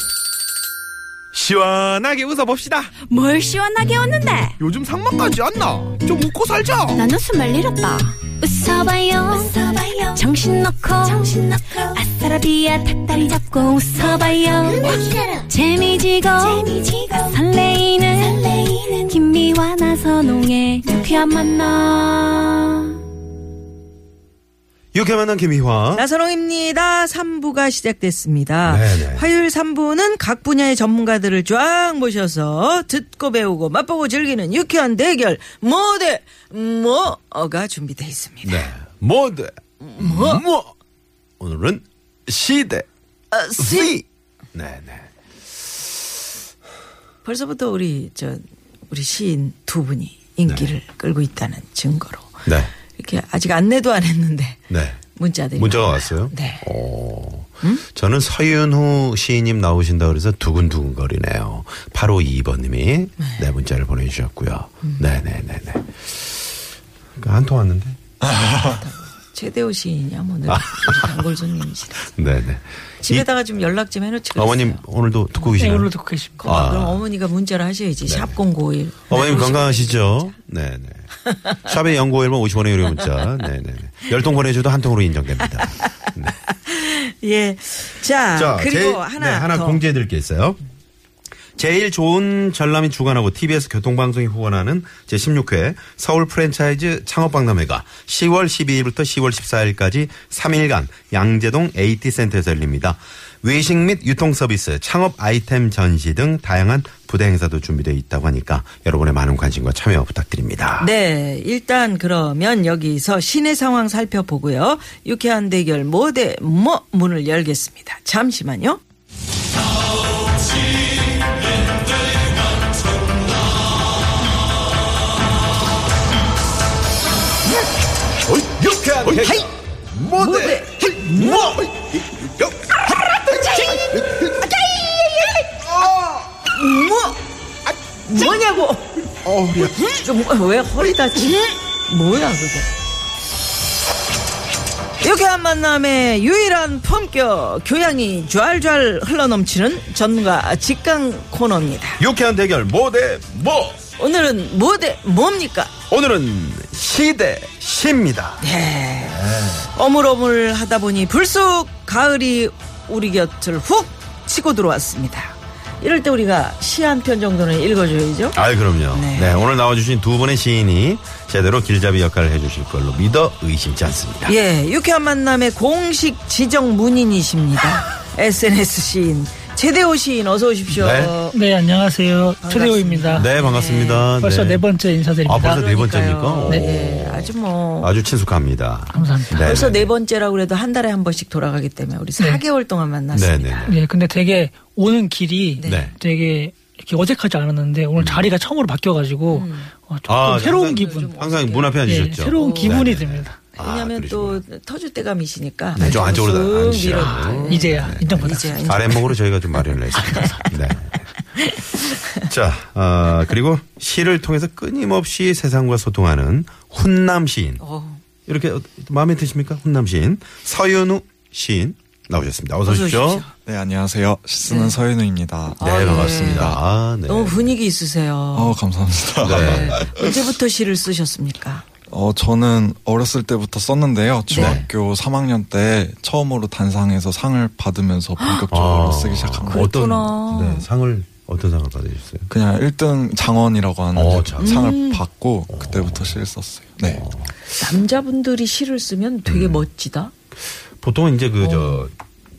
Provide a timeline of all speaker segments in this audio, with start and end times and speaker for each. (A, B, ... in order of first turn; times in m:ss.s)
0:01.3-0:02.9 A
0:03.1-0:04.6 B
0:04.6-0:07.0 A
0:06.9-0:22.9 B
0:24.9-0:26.0 A
0:25.9-0:38.7 C
0:28.6-0:29.2 A
0:38.4-0:40.7 A
0:39.8-0:40.4 C
0:41.4-0:42.9 A
0:43.3-0:44.0 C
0:43.6-0:45.1 A
0:47.2-0:56.6 C
0:52.4-0:52.7 A
0:54.7-0:55.0 A
0:55.6-1:06.3 A
1:03.2-1:03.4 C
1:07.2-1:08.0 A
1:08.2-1:08.8 D
1:08.6-1:12.1 C
1:10.5-1:11.1 A
1:12.1-1:13.2 A
1:13.0-1:14.8 C
1:14.3-1:15.9 A
1:15.4-1:15.7 C
1:15.6-1:16.4 E
1:16.4-1:20.3 C
1:16.4-1:17.0 A
1:18.1-1:18.3 A
1:19.1-1:21.0 A
1:21.3-1:21.7 C
1:21.6-1:26.3 A
1:26.4-1:29.8 C
1:28.3-1:30.6 A
1:31.6-1:50.9 A
1:50.8-1:58.8 C
2:08.3-2:12.8 A
2:09.2-2:09.5 C
2:10.1-2:11.6 C
2:13.3-2:15.6 C
2:13.4-2:14.4 A
2:15.7-2:16.2 A
2:16.4-2:17.2 C
2:18.0-2:19.0 C
2:19.2-2:19.8 A
2:19.6-2:22.7 C
2:25.0-2:32.0 C
2:32.0-2:33.8 A
2:34.0-2:35.7 C
2:35.9-2:38.4 A
2:38.4-2:39.2 C
2:39.0-2:39.7 A
2:39.7-2:48.4 C
2:48.3-2:54.3 A
2:48.9-2:49.4 C
2:54.2-3:01.4 C
3:00.7-3:01.1 A
3:01.3-3:03.3 E
3:02.4-3:04.1 C
3:03.2-3:04.6 A
3:04.1-3:05.6 E
3:05.2-3:09.9 A
3:05.3-3:07.9 C
3:08.9-3:09.6 E
3:09.0-3:13.8 C
3:13.1-3:13.8 A
3:13.7-3:21.1 E
3:15.6-3:15.9 C
3:15.6-3:15.9 A
3:18.0-3:18.3 A
3:19.3-3:19.7 C
3:20.1-3:24.4 A
3:20.4-3:22.8 C
3:21.8-3:23.4 E
3:23.6-3:29.2 C
3:25.8-3:30.9 A
3:26.9-3:29.0 E
3:30.0-3:30.4 E
3:30.0-3:30.3 C
3:31.4-3:32.2 C
3:32.2-3:37.6 A
3:37.6-3:38.0 C
3:38.2-3:43.2 A
3:42.6-3:43.3 C
3:43.4-3:46.6 D
3:44.4-3:44.8 C
3:45.6-3:48.6 C
3:45.6-3:47.5 A
3:48.3-3:50.1 D
3:49.2-3:49.9 A
3:49.3-3:51.6 C
3:51.9-3:59.7 D
3:54.3-3:54.6 C
3:54.3-3:54.7 A
3:58.5-4:02.3 A
3:59.5-4:00.6 C
4:02.3-4:07.0 D
4:03.9-4:04.7 A
4:04.4-4:05.0 C
4:05.5-4:06.2 A
4:06.8-4:07.3 A
4:07.6-4:10.1 C
4:09.3-4:09.6 A
4:10.8-4:11.9 A
4:11.4-4:11.8 C